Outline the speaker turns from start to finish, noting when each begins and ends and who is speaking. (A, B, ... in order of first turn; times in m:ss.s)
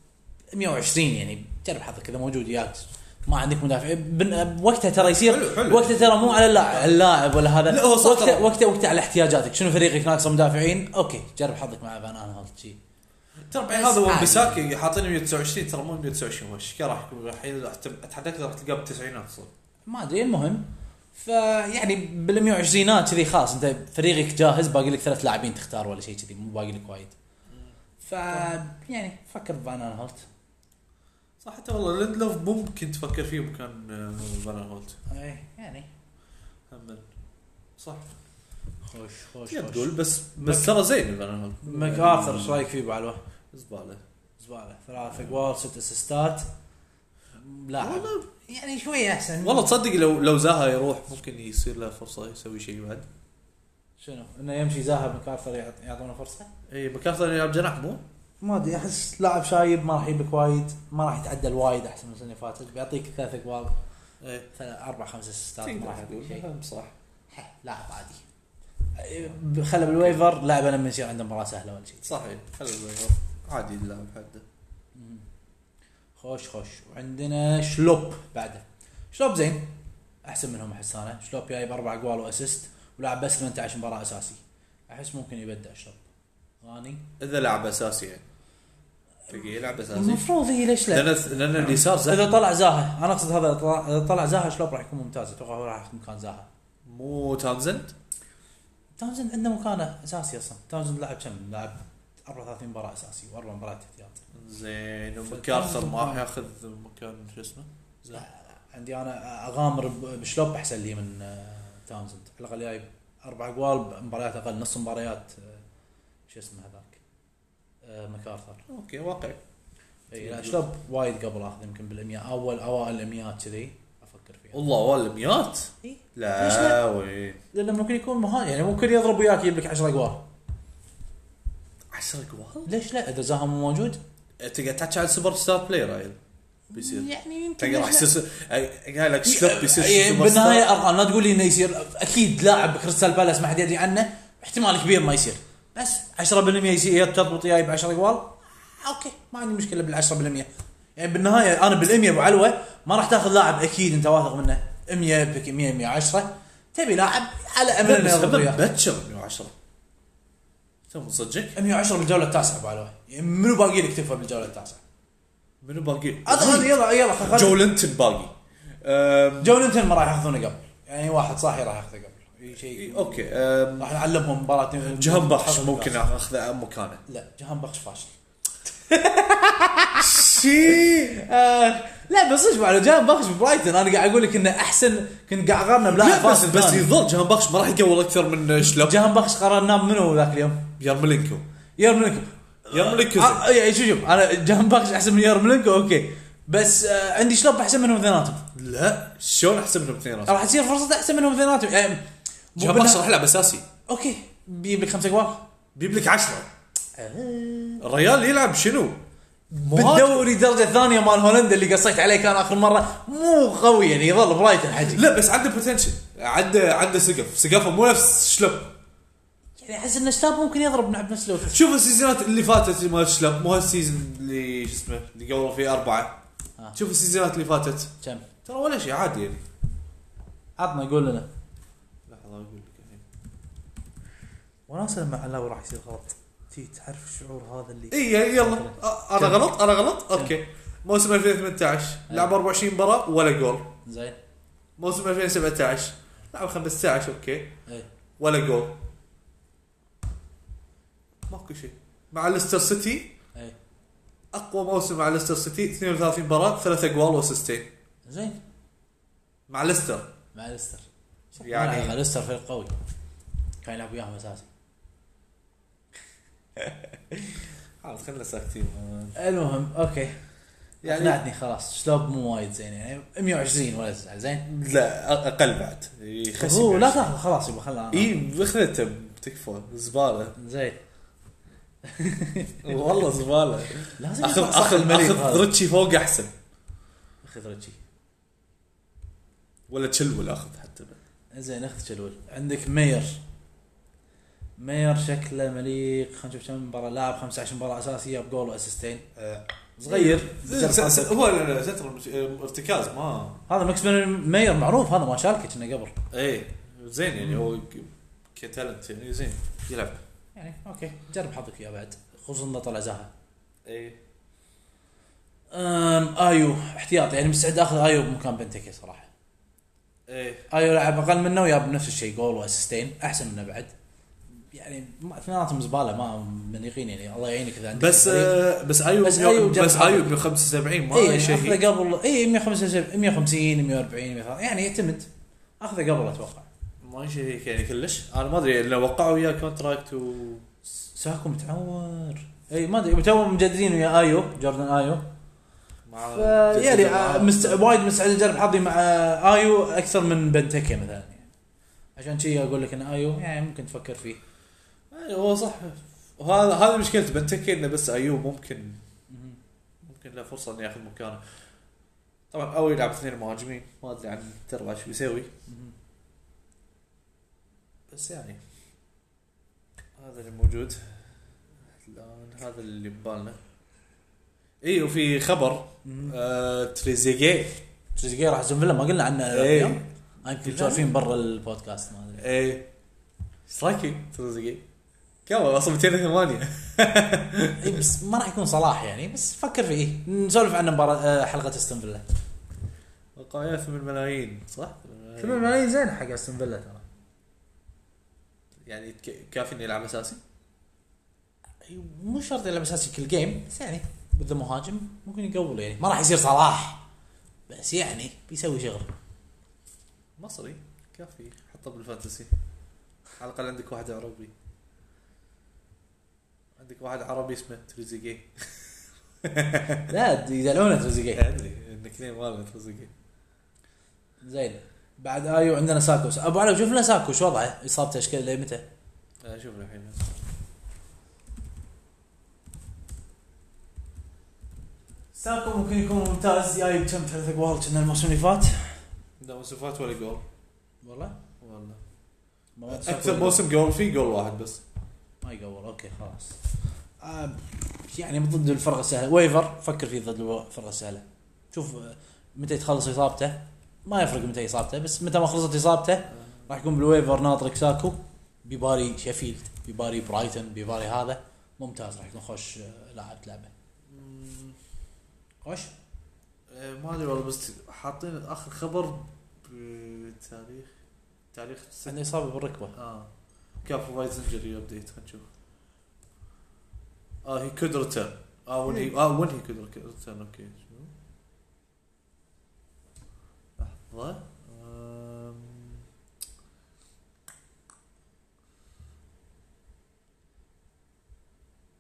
0:00.5-0:12.8 A
0:05.0-0:07.0 B
0:07.6-0:08.5 B
0:13.5-0:19.5 B
0:13.7-0:14.6 A
0:19.9-0:27.2 A
0:27.5-0:27.8 B
0:28.0-0:30.3 A
0:31.4-0:35.0 B
0:35.1-0:35.9 A
0:36.7-0:37.1 B
0:37.8-0:38.2 B
0:38.9-0:40.8 A
0:39.5-0:42.7 B
0:41.6-0:43.2 A
0:43.5-0:44.0 B
0:44.4-0:46.5 A
0:47.4-0:49.7 A
0:47.8-0:48.3 B
0:49.4-0:53.1 B
0:54.0-0:56.5 A
0:56.7-0:58.0 B
0:58.4-1:03.8 A
1:04.2-1:04.5 B
1:04.5-1:06.4 A
1:05.6-1:06.9 B
1:07.3-1:08.2 A
1:09.0-1:12.1 A
1:12.0-1:14.4 B
1:15.0-1:15.3 A
1:16.2-1:26.0 A
1:26.6-1:27.1 A
1:27.2-1:28.3 B
1:29.3-1:36.5 A
1:29.3-1:30.3 B
1:30.9-1:32.4 B
1:36.9-1:37.9 B
1:39.0-1:44.2 A
1:44.3-1:48.3 B
1:45.3-1:46.2 A
1:48.1-1:55.6 A
1:56.3-1:57.0 A
1:57.8-1:58.6 A
1:58.7-1:59.4 B
2:00.1-2:04.6 A
2:00.2-2:00.6 B
2:04.5-2:07.4 B
2:05.8-2:06.8 A
2:07.5-2:10.2 A
2:11.9-2:12.7 B
2:12.7-2:14.0 A
2:14.4-2:16.2 B
2:16.7-2:18.1 A
2:16.7-2:20.7 B
2:19.2-2:38.6 A
2:37.8-2:39.5 B
2:40.9-2:41.6 B
2:41.6-2:44.8 A
2:45.6-2:49.6 B
2:46.3-2:47.7 A
2:49.4-2:53.2 A
2:52.7-2:53.9 B
2:53.8-2:56.0 A
2:54.9-2:57.0 B
2:57.1-2:58.1 A
2:58.9-3:06.9 A
3:00.0-3:01.2 B
3:05.9-3:09.0 B
3:08.6-3:10.7 A
3:10.8-3:11.4 B
3:11.8-3:18.5 A
3:12.7-3:13.5 B
3:18.6-3:20.4 B
3:20.3-3:23.1 A
3:22.6-3:23.7 B
3:23.9-3:25.5 A
3:25.8-3:26.5 B
3:27.0-3:27.8 A
3:27.8-3:29.0 B
3:29.5-3:35.1 A
3:29.6-3:30.3 B
3:34.8-3:38.7 B
3:39.6-3:41.6 A
3:41.4-3:46.2 B
3:46.8-3:47.9 B
3:48.0-3:48.3 A
3:48.4-3:49.4 B
3:50.6-3:51.3 A
3:52.1-3:53.0 B
3:54.7-3:59.5 A
3:57.9-4:03.7 B
4:02.1-4:02.3 A
4:03.8-4:04.2 A
4:04.8-4:07.6 B
4:08.2-4:08.8 B
4:11.3-4:13.2 B
4:14.3-4:17.7 B
4:18.1-4:18.4 A
4:19.5-4:20.1 B
4:20.3-4:22.7 A
4:21.4-4:22.0 B
4:23.6-4:24.5 A
4:27.1-4:29.2 B
4:29.2-4:30.2 A
4:30.8-4:31.2 B
4:30.8-4:34.5 A
4:34.5-4:37.1 B
4:36.4-4:38.2 A
4:37.9-4:40.4 B
4:40.4-4:40.8 A
4:41.8-4:42.8 A
4:42.6-4:46.3 B
4:44.0-4:45.5 A
4:47.2-4:47.8 A
4:49.7-4:51.0 B
4:51.3-4:53.2 A
4:54.6-5:01.2 A
4:59.9-5:03.4 B
5:03.5-5:06.0 A
5:06.1-5:10.0 B
5:10.4-5:13.1 A
5:13.6-5:14.0 B
5:15.5-5:19.1 A
5:20.1-5:20.5 B
5:20.5-5:23.7 A
5:24.5-5:28.4 A
5:27.7-5:31.6 B
5:29.0-5:30.2 A
5:30.9-5:35.1 A
5:35.6-5:36.5 A
5:36.8-5:40.5 B
5:40.8-5:45.1 A
5:45.9-5:47.7 B
5:46.0-5:51.3 A
5:52.0-5:54.2 A
5:54.9-5:58.8 B
5:59.1-5:59.4 A
5:59.8-6:01.2 B
6:02.3-6:05.3 B
6:05.5-6:05.8 A
6:07.9-6:08.4 B
6:10.0-6:11.0 B
6:11.8-6:13.4 B
6:14.6-6:17.6 B
6:15.8-6:16.2 A
6:18.0-6:22.3 A
6:19.3-6:20.9 B
6:22.2-6:22.7 B
6:23.5-6:24.6 B
6:25.3-6:27.8 B
6:27.6-6:32.0 A
6:33.2-6:35.5 B
6:35.2-6:36.8 A
6:38.6-6:40.2 B
6:41.6-6:46.8 A
6:47.5-6:48.9 A
6:50.2-6:52.3 B
6:53.2-6:54.3 B
6:56.6-6:58.6 B
6:59.2-6:59.9 B
6:59.9-7:01.2 A
7:01.1-7:02.9 B
7:04.2-7:08.7 A
7:09.2-7:10.2 B
7:15.1-7:18.8 A
7:19.2-7:20.2 B
7:20.8-7:21.2 A
7:21.4-7:21.8 B
7:22.6-7:23.4 A
7:22.7-7:24.6 B
7:25.2-7:26.4 A
7:27.0-7:43.5 A
7:43.9-7:44.6 B
7:45.4-7:45.7 A
7:46.5-7:50.7 B
7:51.3-7:52.0 B
7:51.9-7:52.8 A
7:52.8-7:53.1 B
7:53.6-7:55.3 B
7:57.2-8:00.9 B
8:03.6-8:05.8 B